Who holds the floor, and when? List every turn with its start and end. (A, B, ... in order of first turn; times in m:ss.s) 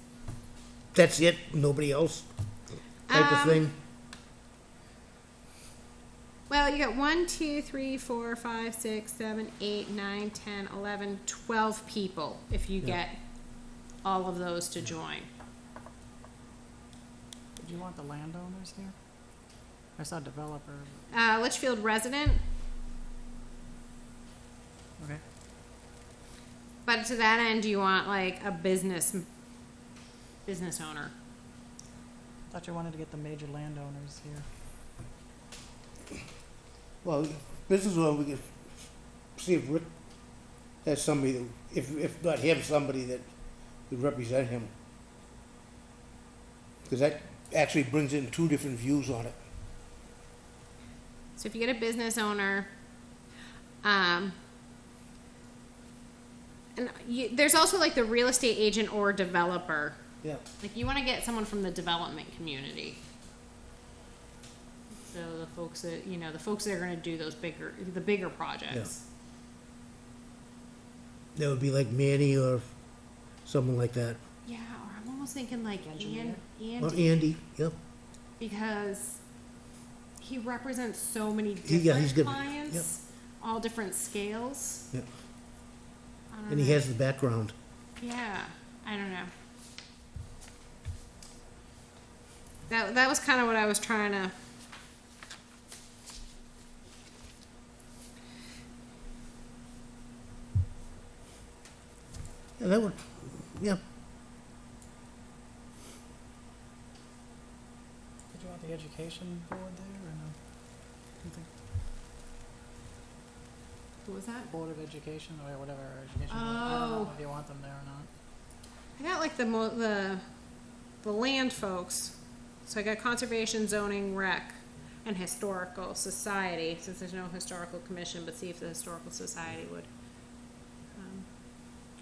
0:00.9-0:02.3 A
0:03.1-0:03.7 B
0:03.1-0:03.7 A
0:06.5-0:13.2 B
0:14.0-0:15.3 B
0:17.6-0:18.9 C
0:20.0-0:21.1 C
0:21.1-0:22.4 B
0:26.8-0:29.2 B
0:30.4-0:31.1 B
0:32.5-0:34.4 C
0:37.0-0:39.9 A
0:40.8-0:43.3 A
0:43.9-0:44.7 A
0:46.9-0:49.4 A
0:51.4-0:52.7 B
0:53.8-0:54.3 B
0:56.8-1:00.0 B
1:00.6-1:03.0 B
1:05.1-1:09.0 B
1:11.3-1:12.7 A
1:13.4-1:14.2 A
1:14.4-1:17.2 B
1:15.8-1:16.4 C
1:16.8-1:17.8 A
1:18.4-1:19.2 B
1:20.2-1:24.9 B
1:21.6-1:22.9 A
1:26.3-1:26.8 B
1:26.5-1:27.5 A
1:28.0-1:29.3 B
1:32.7-1:34.3 B
1:42.6-1:43.8 A
1:48.3-1:50.4 C
1:51.2-1:51.5 C
1:54.0-1:54.5 B
1:54.5-1:58.1 C
1:56.3-1:57.2 B
1:59.0-2:00.2 B
2:01.0-2:09.9 B
2:10.9-2:11.2 B